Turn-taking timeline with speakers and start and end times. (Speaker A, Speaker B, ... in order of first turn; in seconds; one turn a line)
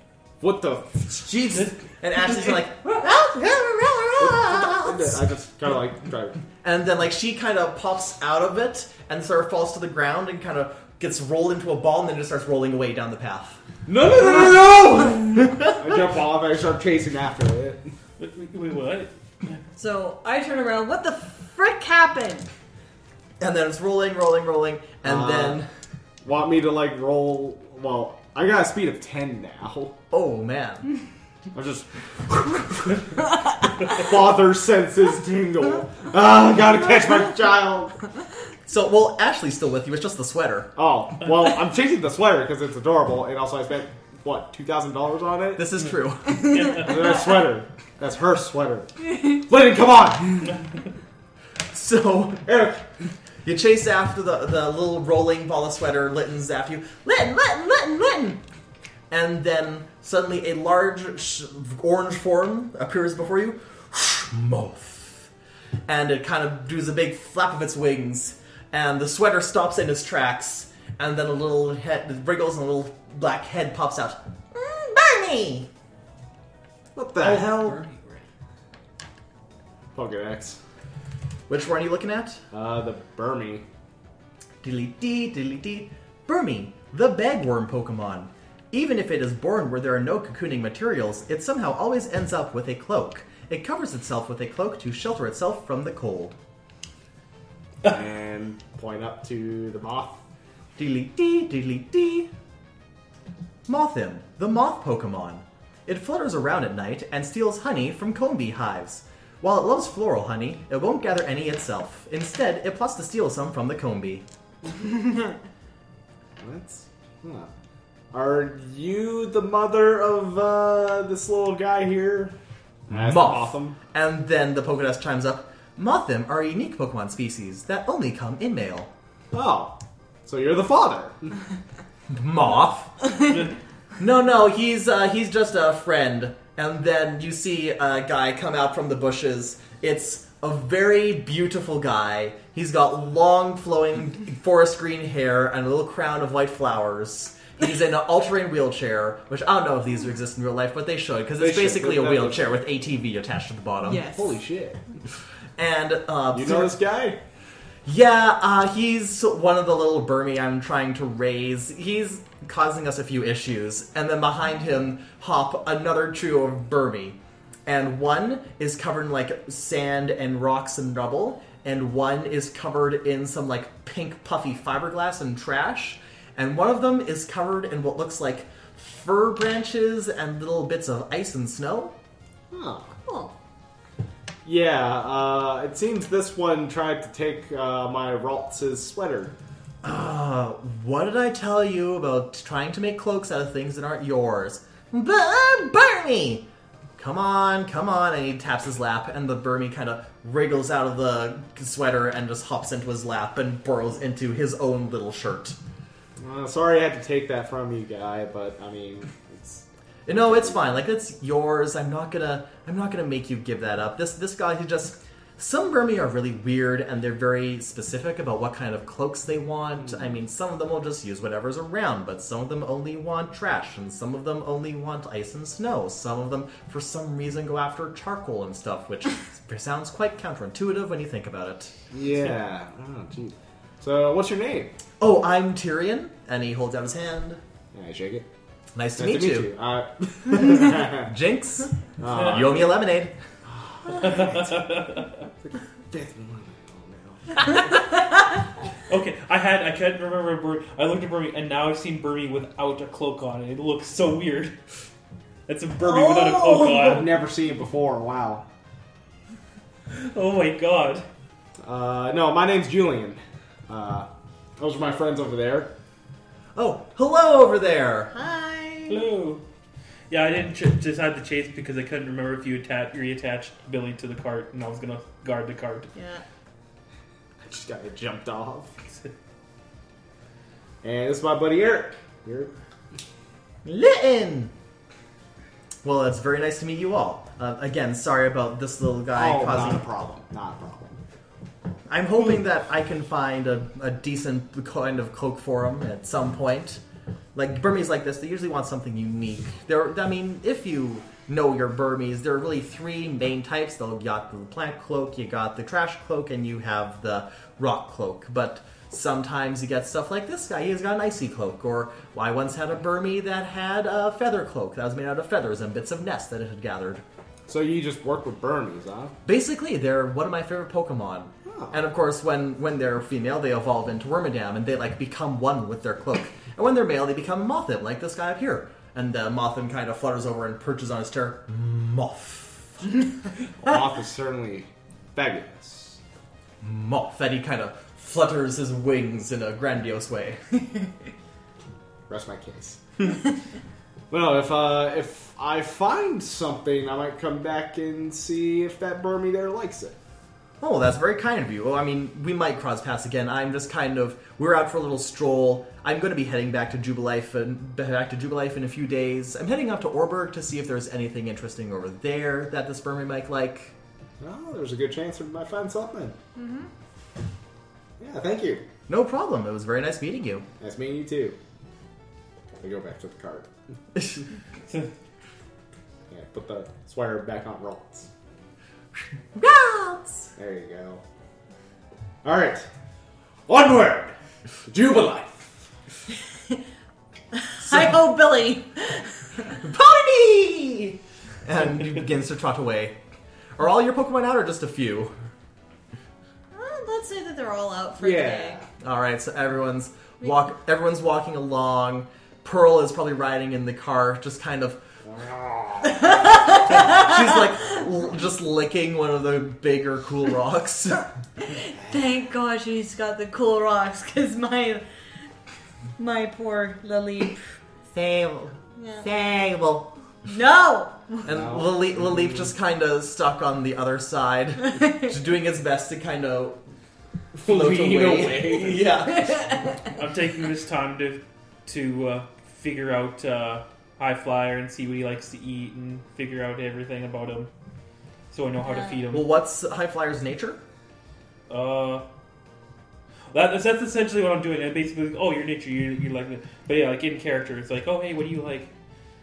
Speaker A: 0.4-1.7
Speaker B: 1.3-5.2
Speaker A: 4.2-6.4
Speaker B: 6.6-13.6
Speaker A: 13.8-17.9
Speaker C: 18.2-19.5
Speaker D: 19.8-22.5
Speaker B: 23.4-25.7
Speaker A: 25.0-25.6
Speaker A: 26.2-30.0
Speaker B: 30.1-30.9
Speaker A: 31.5-38.0
Speaker B: 38.7-40.7
Speaker A: 40.8-45.6
Speaker B: 45.6-46.7
Speaker A: 46.6-50.6
Speaker B: 51.7-52.7
Speaker A: 52.5-52.8
Speaker B: 53.4-58.4
Speaker B: 59.1-65.3
Speaker B: 65.9-75.7
Speaker A: 77.0-77.8
Speaker C: 77.2-78.2
Speaker A: 79.9-80.6
Speaker B: 81.5-82.4
Speaker A: 82.5-83.6
Speaker B: 84.6-96.3
Speaker A: 97.8-100.2
Speaker B: 100.8-102.3
Speaker B: 103.7-114.2
Speaker A: 116.4-117.5
Speaker A: 118.1-122.3
Speaker A: 122.9-123.8
Speaker B: 122.9-128.9
Speaker A: 129.3-131.3
Speaker B: 132.1-133.4
Speaker B: 134.0-154.1
Speaker A: 151.4-152.5
Speaker D: 153.8-154.3
Speaker A: 154.0-154.9
Speaker B: 155.6-156.8
Speaker A: 156.3-157.2
Speaker B: 157.8-181.9
Speaker A: 182.5-182.9
Speaker D: 183.1-183.3
Speaker A: 184.4-189.3
Speaker B: 189.8-205.6
Speaker A: 206.2-210.5
Speaker B: 210.1-231.7
Speaker A: 231.9-234.7
Speaker B: 235.0-237.4
Speaker A: 237.7-238.3
Speaker B: 238.7-239.5
Speaker A: 239.0-241.1
Speaker B: 240.3-243.1
Speaker A: 242.0-242.8
Speaker A: 243.4-247.7
Speaker C: 244.0-245.1
Speaker C: 248.9-254.6
Speaker C: 255.5-257.2
Speaker A: 256.3-258.4
Speaker C: 259.9-261.0
Speaker A: 261.6-265.7
Speaker B: 266.5-268.1
Speaker D: 268.1-269.0
Speaker C: 268.9-269.4
Speaker C: 270.1-275.9
Speaker D: 275.9-276.2
Speaker A: 277.4-278.7
Speaker A: 280.8-282.5
Speaker B: 283.6-284.5
Speaker B: 285.8-289.8
Speaker A: 289.1-291.0
Speaker B: 291.9-296.8
Speaker B: 297.3-317.0
Speaker A: 317.5-319.1
Speaker B: 319.2-332.8
Speaker A: 321.5-321.8
Speaker A: 333.6-336.0
Speaker B: 336.6-340.4
Speaker A: 342.1-342.8
Speaker A: 344.1-350.0
Speaker B: 350.6-363.7
Speaker A: 364.2-366.1
Speaker D: 366.3-366.7
Speaker A: 368.0-368.6
Speaker B: 368.9-370.4
Speaker A: 370.6-371.4
Speaker A: 372.6-373.5
Speaker A: 376.1-378.1
Speaker B: 379.3-380.3
Speaker A: 380.4-381.0
Speaker A: 382.2-382.6
Speaker A: 383.5-384.1
Speaker A: 384.7-385.6
Speaker D: 387.3-389.2
Speaker B: 389.6-393.0
Speaker B: 393.6-395.1
Speaker D: 396.5-398.6
Speaker A: 398.0-398.7
Speaker B: 398.8-404.8
Speaker A: 405.0-406.1
Speaker D: 406.1-407.0
Speaker B: 406.6-411.1
Speaker D: 411.4-414.8
Speaker D: 416.0-417.4
Speaker B: 417.9-419.9
Speaker D: 418.8-419.1
Speaker D: 420.2-421.3
Speaker B: 421.2-426.6
Speaker A: 421.3-422.5
Speaker A: 427.3-428.9
Speaker B: 427.4-429.8
Speaker C: 429.9-437.5
Speaker C: 438.3-439.3
Speaker D: 438.6-439.0
Speaker B: 439.1-440.6
Speaker C: 441.5-442.0
Speaker C: 443.3-448.7